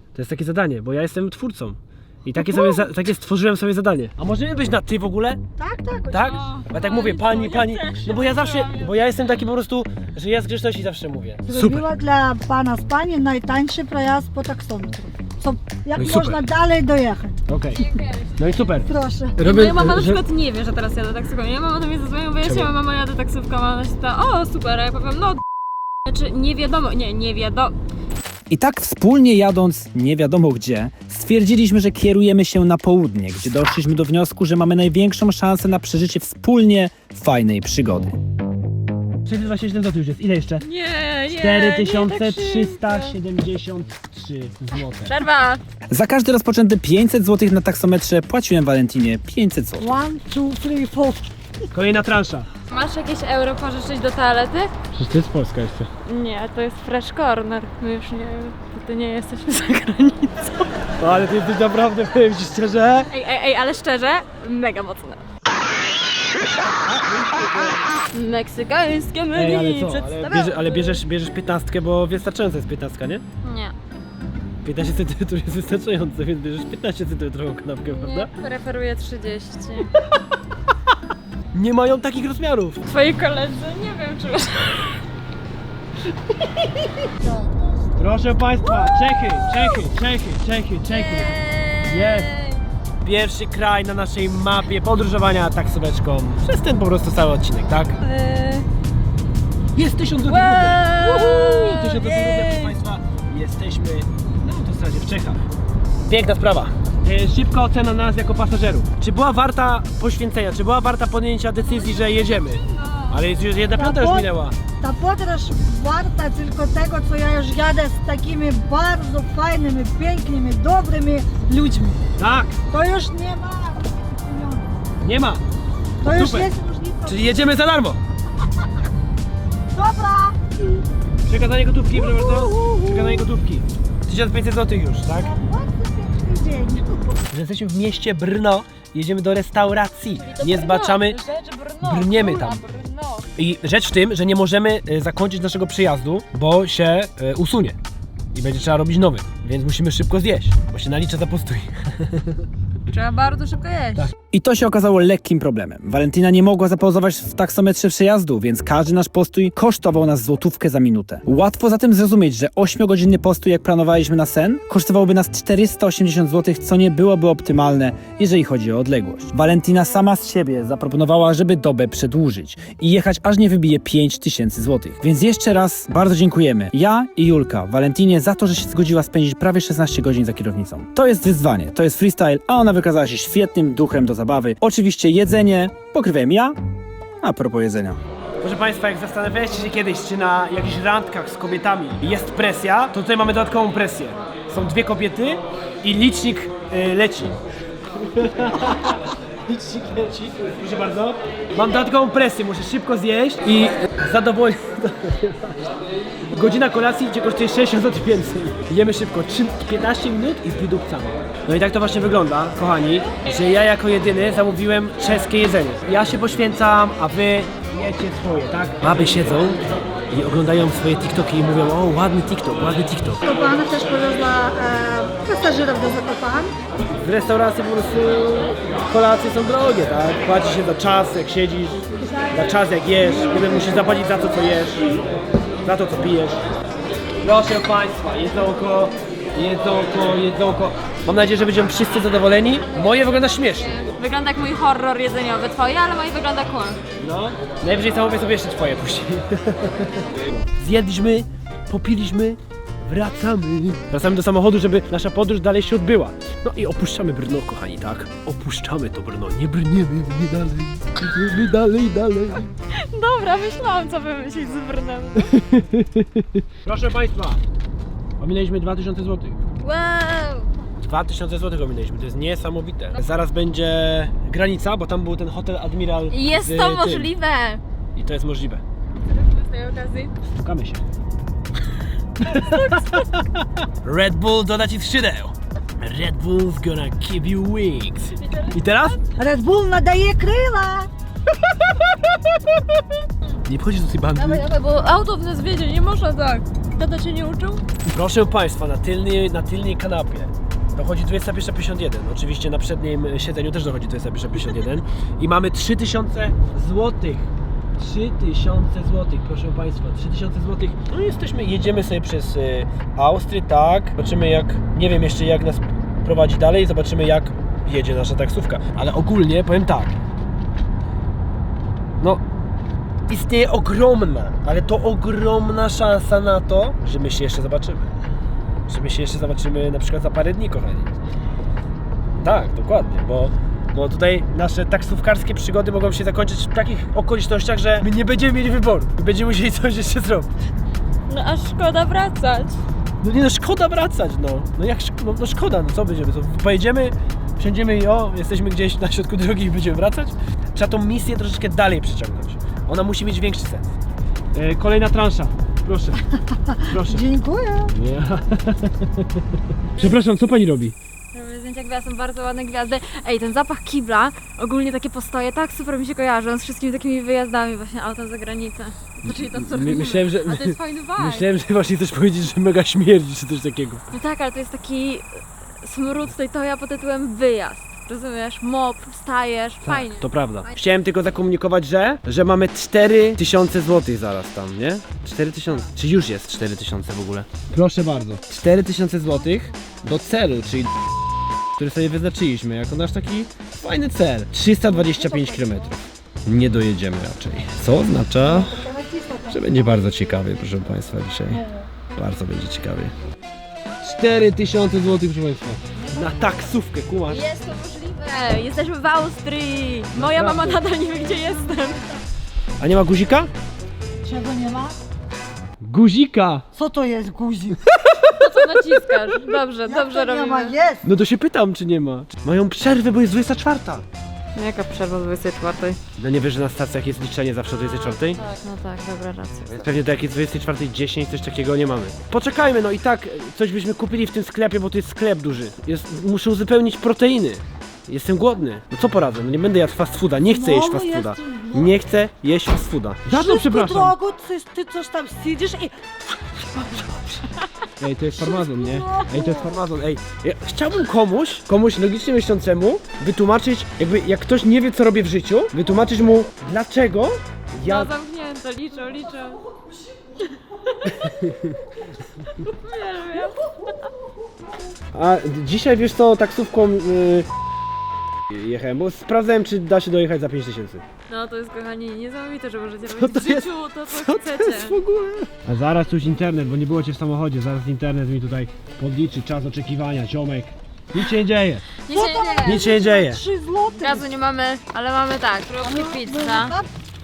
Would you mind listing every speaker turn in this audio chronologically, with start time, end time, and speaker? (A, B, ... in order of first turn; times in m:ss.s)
0:00.2-0:05.4 A
0:02.4-0:02.9 B
0:05.6-0:06.4 B
0:06.1-0:11.9 A
0:06.4-0:08.9 C
0:11.5-0:17.4 B
0:15.9-0:16.4 A
0:17.5-0:17.9 A
0:17.8-0:18.3 C
0:18.4-0:20.2 A
0:18.9-0:19.4 B
0:19.4-0:25.4 C
0:22.4-0:22.7 A
0:26.0-0:27.8 C
0:28.5-0:38.2 D
0:39.2-0:40.6 A
0:40.6-0:43.2 C
0:41.3-0:45.2 A
0:45.1-0:45.6 C
0:45.9-0:49.9 D
0:49.8-0:51.3 B
0:51.7-0:52.5 A
0:52.7-0:54.7 C
0:54.9-0:55.9 A
0:56.1-1:00.7 C
1:01.0-1:03.1 A
1:03.1-1:05.2 C
1:06.7-1:07.9 A
1:08.1-1:11.0 C
1:09.3-1:13.2 A
1:13.4-1:13.7 C
1:14.6-1:18.3 A
1:17.9-1:19.9 C
1:21.5-1:22.8 A
1:22.9-1:25.0 C
1:28.0-1:31.4 A
1:28.8-1:29.5 C
1:30.9-1:32.6 C
1:31.9-1:32.3 A
1:33.0-1:38.0 A
1:38.0-1:38.7 C
1:39.8-1:45.4 A
1:40.3-1:42.8 C
1:46.1-1:54.6 A
1:51.7-1:53.1 C
1:53.8-2:02.0 B
2:02.2-2:02.6 A
2:02.7-2:04.8 B
2:05.0-2:05.4 A
2:06.0-2:07.5 B
2:06.1-2:06.5 A
2:07.1-2:08.0 A
2:09.7-2:10.8 B
2:11.3-2:15.3 A
2:12.0-2:13.3 B
2:15.2-2:17.2 B
2:17.3-2:21.2 A
2:20.2-2:23.3 C
2:21.8-2:22.6 A
2:23.4-2:27.8 A
2:28.3-2:32.4 A
2:32.9-2:34.0 C
2:34.3-3:06.6 D
3:07.2-3:08.0 D
3:08.4-3:17.4 A
3:18.0-3:25.6 A
3:26.3-3:39.6 A
3:40.1-3:43.2 A
3:43.2-3:46.5 B
3:47.0-3:55.0 A
3:52.0-3:52.4 B
3:53.1-3:53.9 B
3:55.6-3:56.4 A
3:57.2-4:03.7 A
4:03.7-4:06.8 C
4:07.0-4:22.5 A
4:22.7-4:25.3 C
4:25.2-4:27.4 A
4:28.2-4:29.4 A
4:29.6-4:30.5 C
4:30.8-4:37.1 A
4:36.1-4:37.6 C
4:38.0-4:38.6 A
4:39.0-4:40.1 C
4:40.4-4:40.8 A
4:42.2-4:43.2 A
4:42.3-4:43.1 C
4:43.8-4:49.0 A
4:48.2-4:49.0 C
4:49.2-4:50.9 B
4:53.5-4:54.4 A
4:54.2-4:57.6 C
4:57.9-5:19.9 A
5:23.1-5:27.9 A
5:28.7-5:30.9 A
5:32.2-5:40.3 A
5:41.1-5:42.6 C
5:43.0-5:53.8 A
5:54.3-5:56.0 A
5:56.5-5:57.7 B
5:56.7-5:57.0 A
5:57.7-5:59.2 A
5:59.8-6:00.8 A
6:01.1-6:11.3 C
6:09.0-6:13.8 A
6:13.9-6:20.5 C
6:19.6-6:30.7 A
6:31.6-6:38.6 A
6:34.7-6:35.6 B
6:38.2-6:39.5 B
6:39.3-6:41.4 A
6:41.3-6:41.7 B
6:42.0-6:42.9 A
6:43.8-6:47.2 A
6:47.1-6:51.8 C
6:49.9-6:50.6 A
6:52.6-6:53.3 A
6:54.0-6:54.8 B
6:55.6-6:56.4 A
6:56.6-6:57.6 B
6:58.2-7:00.6 C
6:59.7-7:00.8 B
7:00.8-7:03.8 A
7:04.4-7:05.8 C
7:06.0-7:08.2 A
7:07.7-7:09.6 C
7:09.6-7:24.0 A
7:20.2-7:21.7 B
7:23.1-7:27.3 B
7:27.8-7:37.9 A
7:28.2-7:29.5 B
7:37.6-7:39.4 C
7:40.8-7:41.6 A
7:42.2-7:43.4 C
7:44.9-7:47.3 A
7:48.3-7:50.8 A
7:51.1-7:54.8 C
7:53.0-8:01.7 A
8:01.9-8:02.6 C
8:01.9-8:04.1 B
8:02.4-8:03.2 A
8:03.8-8:06.6 C
8:05.6-8:06.7 B